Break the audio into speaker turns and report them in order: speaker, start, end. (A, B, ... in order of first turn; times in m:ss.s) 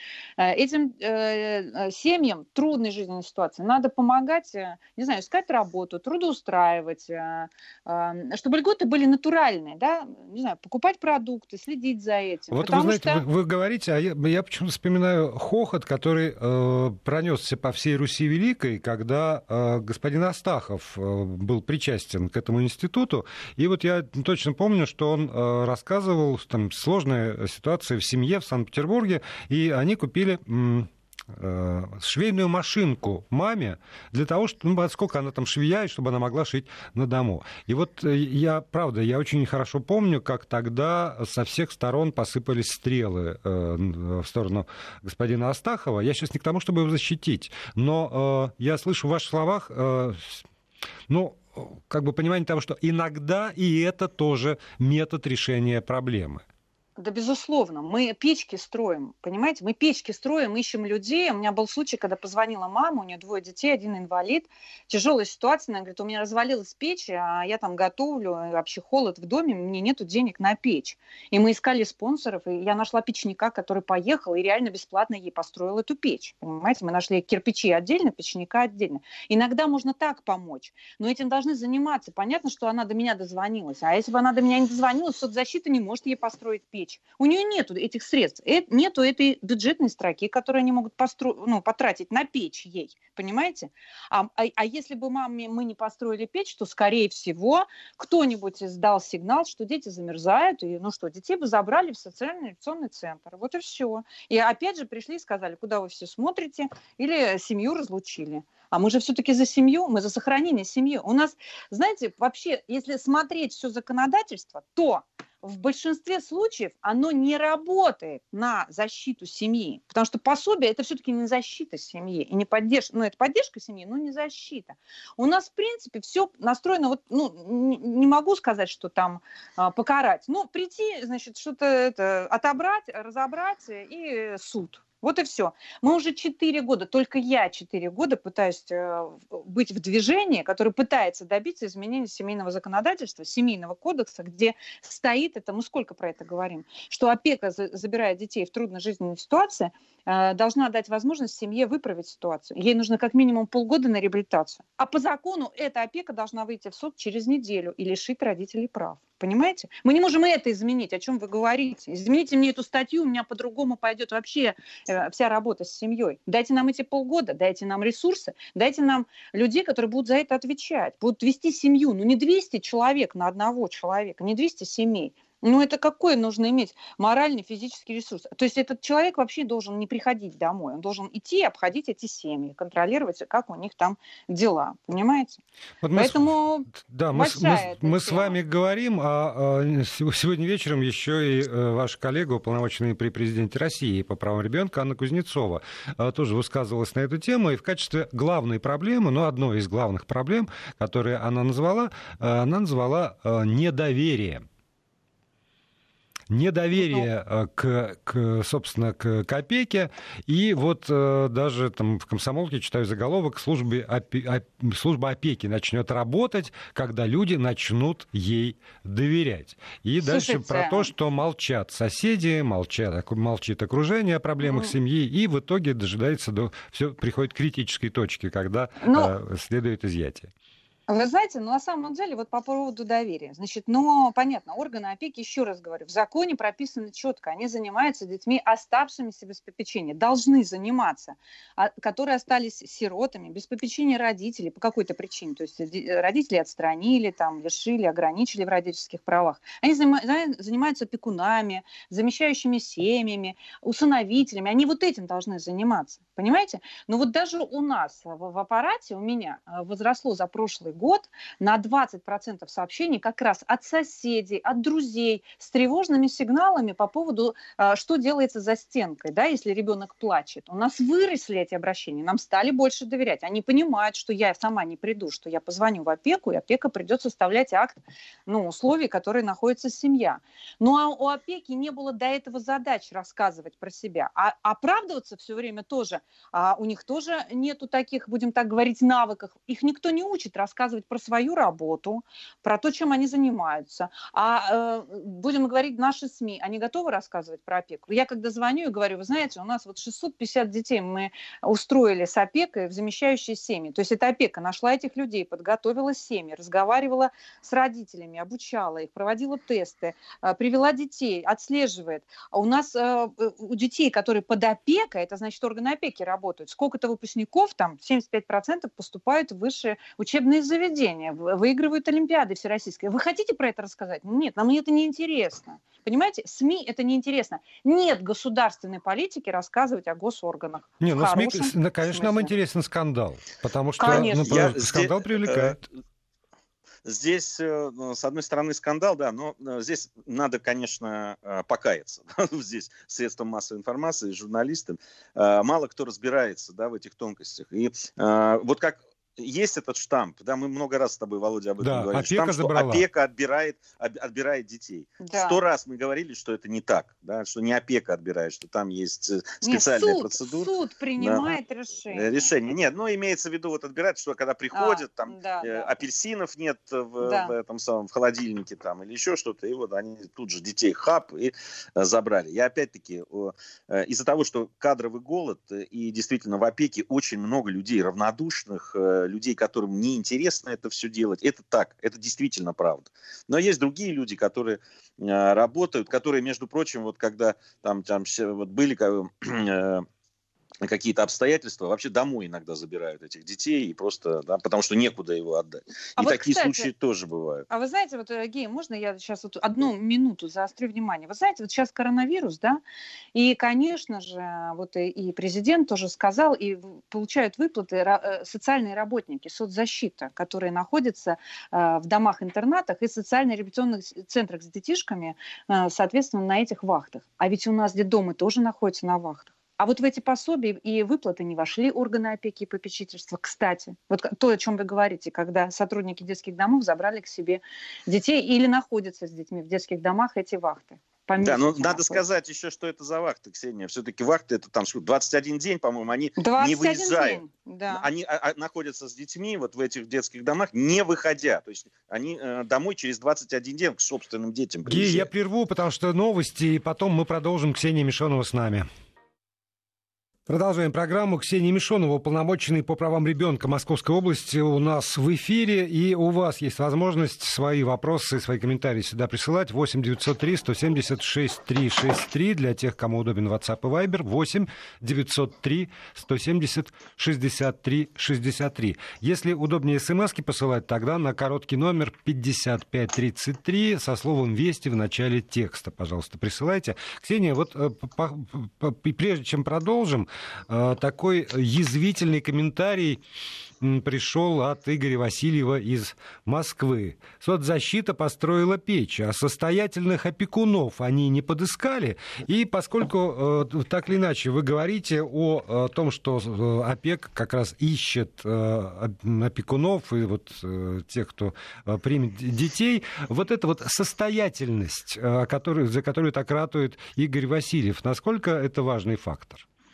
0:00.4-0:13.2 A
0:12.5-0:50.4 B
0:51.1-0:56.4 B
0:57.0-3:05.4 A
3:05.8-3:24.4 B
3:06.0-3:08.4 A
3:26.3-3:50.3 B
3:26.8-3:27.0 A
3:40.0-3:40.9 A
3:44.4-3:44.7 A
3:48.8-3:49.1 A
3:50.9-5:32.3 A
5:30.8-5:35.6 B
5:33.8-5:34.4 A
5:33.8-5:35.6 C
5:36.8-6:01.3 C
5:51.6-5:52.8 B
5:55.0-5:55.4 A
5:59.4-6:02.3 A
6:01.9-6:29.8 C
6:04.5-6:05.7 A
6:07.0-6:07.3 A
6:30.6-6:37.4 C
6:36.0-6:36.7 A
6:37.5-6:42.6 A
6:43.1-7:12.0 A
7:11.2-7:25.1 C
7:16.2-7:17.9 A
7:24.7-7:28.6 B
7:30.3-8:03.0 B
8:03.6-8:29.4 B